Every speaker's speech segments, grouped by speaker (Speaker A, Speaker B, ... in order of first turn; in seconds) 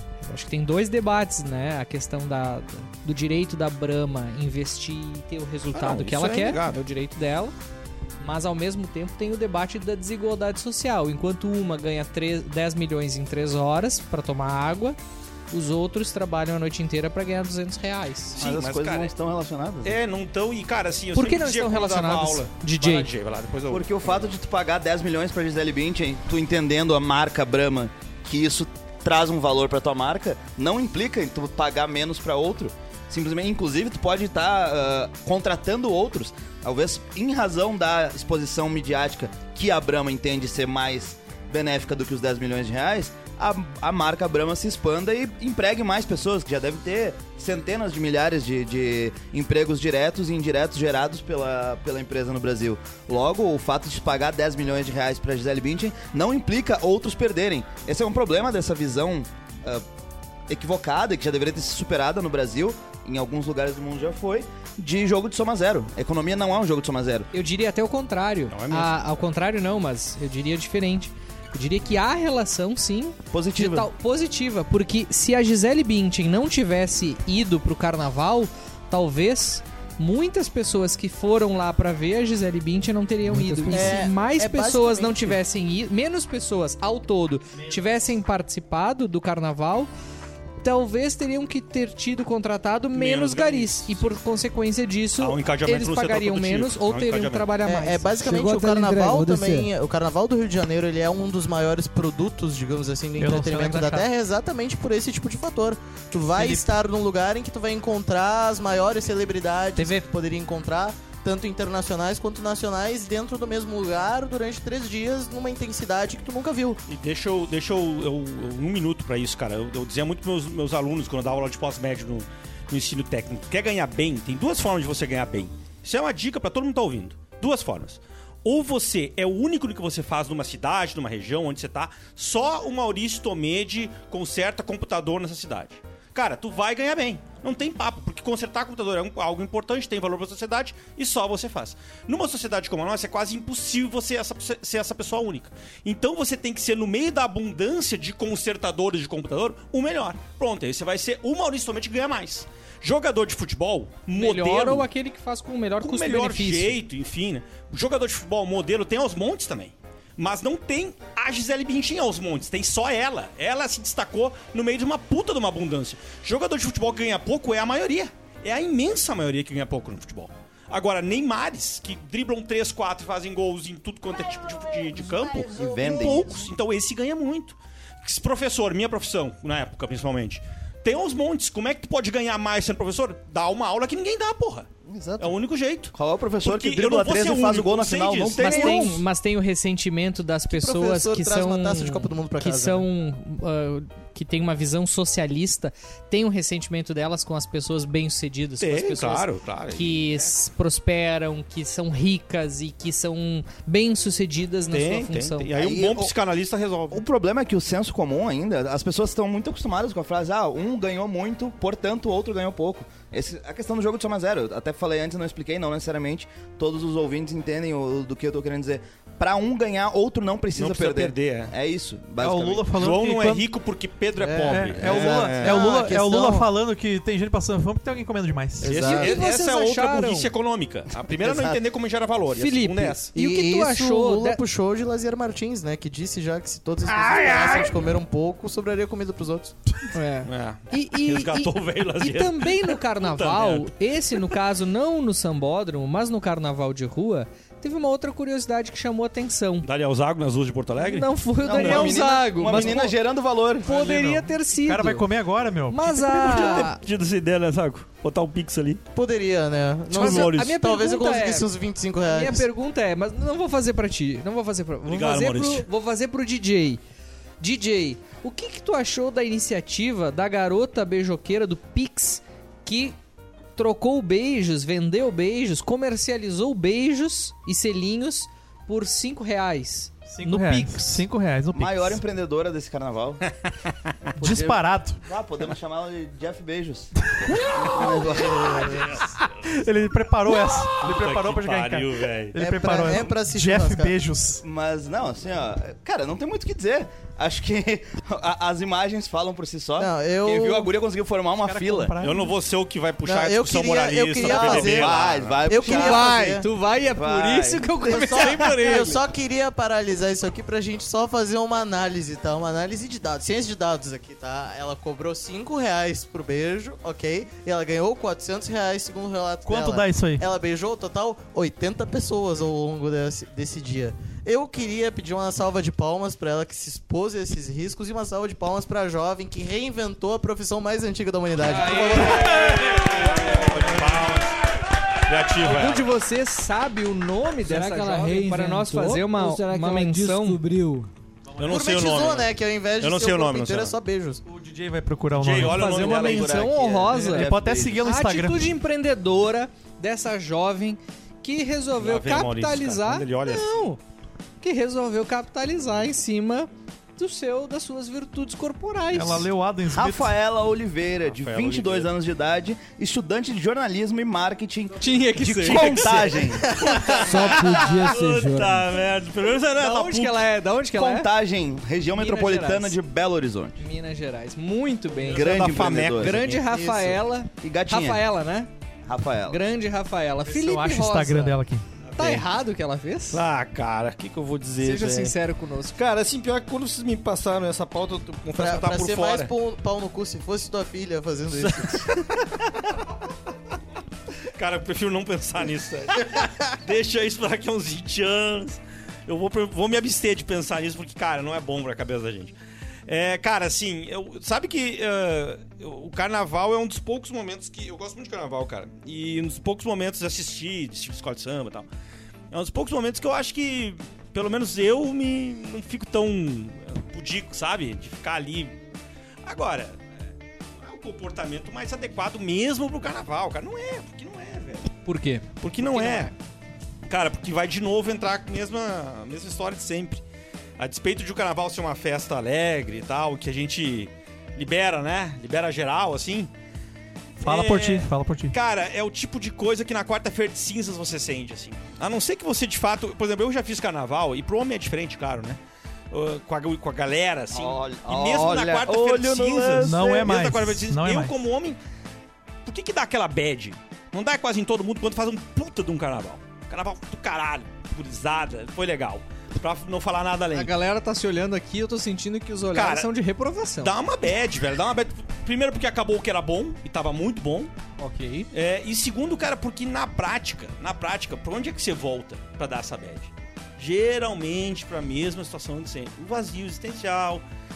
Speaker A: 0.2-7.5, 8.2-15.0, 15.5-18.4, 21.1-23.1, 67.3-89.9, 90.6-98.1, 154.1-156.8, 188.4-205.5, 228.8-230.3, 232.3-234.4, 239.9-249.7, 250.8-252.9, 253.6-255.1, 255.7-256.8, 259.9-261.5, 262.1-266.8, 267.4-272.9, 273.6-281.0, 305.6-309.0, 331.7-332.1, 335.4-340.4, 345.4-347.3, 347.8-353.8, 354.4-359.3, 364.8-366.0, 369.6-371.1, 371.9-372.8, 373.6-378.5, 379.2-381.4, 381.9-383.2, 384.6-385.8, 424.8-426.1, 460.3-463.7, 467.8-468.3
Speaker B: 5.7-6.8, 18.4-19.1, 19.8-24.3, 68.5-69.0, 92.9-94.1, 95.2-97.5, 116.9-154.9, 155.8-184.7, 185.2-189.0, 198.6-200.3, 204.7-207.0, 220.5-221.5, 222.7-225.6, 228.6-233.1, 236.9-237.7, 240.2-244.3, 249.6-252.0, 256.2-258.8, 259.9-260.6, 264.9-265.6, 288.6-289.0, 290.8-292.4, 302.0-305.4, 332.5-334.3, 335.0-335.9, 341.4-343.8, 345.1-346.5, 351.8-353.6, 361.1-361.9, 365.4-370.3, 375.1-376.4, 381.8-382.2, 383.1-385.1, 385.7-389.3, 391.3-392.6, 394.3-402.3, 402.9-411.7, 412.3-418.5, 419.2-419.8, 420.6-424.8, 425.4-426.1, 426.9-430.0, 430.6-436.3, 437.2-445.4, 445.9-451.6, 452.4-460.5, 462.5-462.9, 463.6-467.5, 468.3-477.2
Speaker C: 18.4-20.0, 23.7-59.8, 60.5-67.3, 73.3-73.9, 83.7-84.1, 175.4-176.5, 185.9-188.9, 205.6-206.1, 206.9-222.7, 224.9-225.4, 251.4-253.7, 281.5-283.2, 284.2-289.0, 294.4-301.9, 304.2-306.3, 306.9-308.6, 345.7-347.9, 359.7-366.6, 370.7-373.6, 375.1-376.3, 377.4-378.0, 378.9-379.4, 447.3-450.1
Speaker D: 83.2-84.0, 98.2-99.7, 337.4-340.9, 367.0-368.8
Speaker E: 83.7-85.4, 97.6-116.8, 184.9-185.3, 190.5-192.8, 224.2-226.5, 228.6-229.2, 231.2-231.5, 233.1-239.5, 258.9-262.4, 292.4-293.9, 299.8-300.7, 303.1-306.4, 307.9-332.8, 341.5-344.2, 366.5-367.3, 376.4-377.0, 388.4-391.9
Speaker F: 103.2-104.1, 106.3-106.7, 222.2-223.5, 224.4-228.8, 253.6-256.7, 280.1-282.0, 284.2-285.0, 287.1-288.0, 289.0-294.4, 301.4-302.3, 319.4-320.2, 332.4-333.8, 341.3-341.6, 344.2-345.7, 346.9-348.6, 358.9-360.1, 380.2-381.6, 437.2-438.3, 449.6-451.1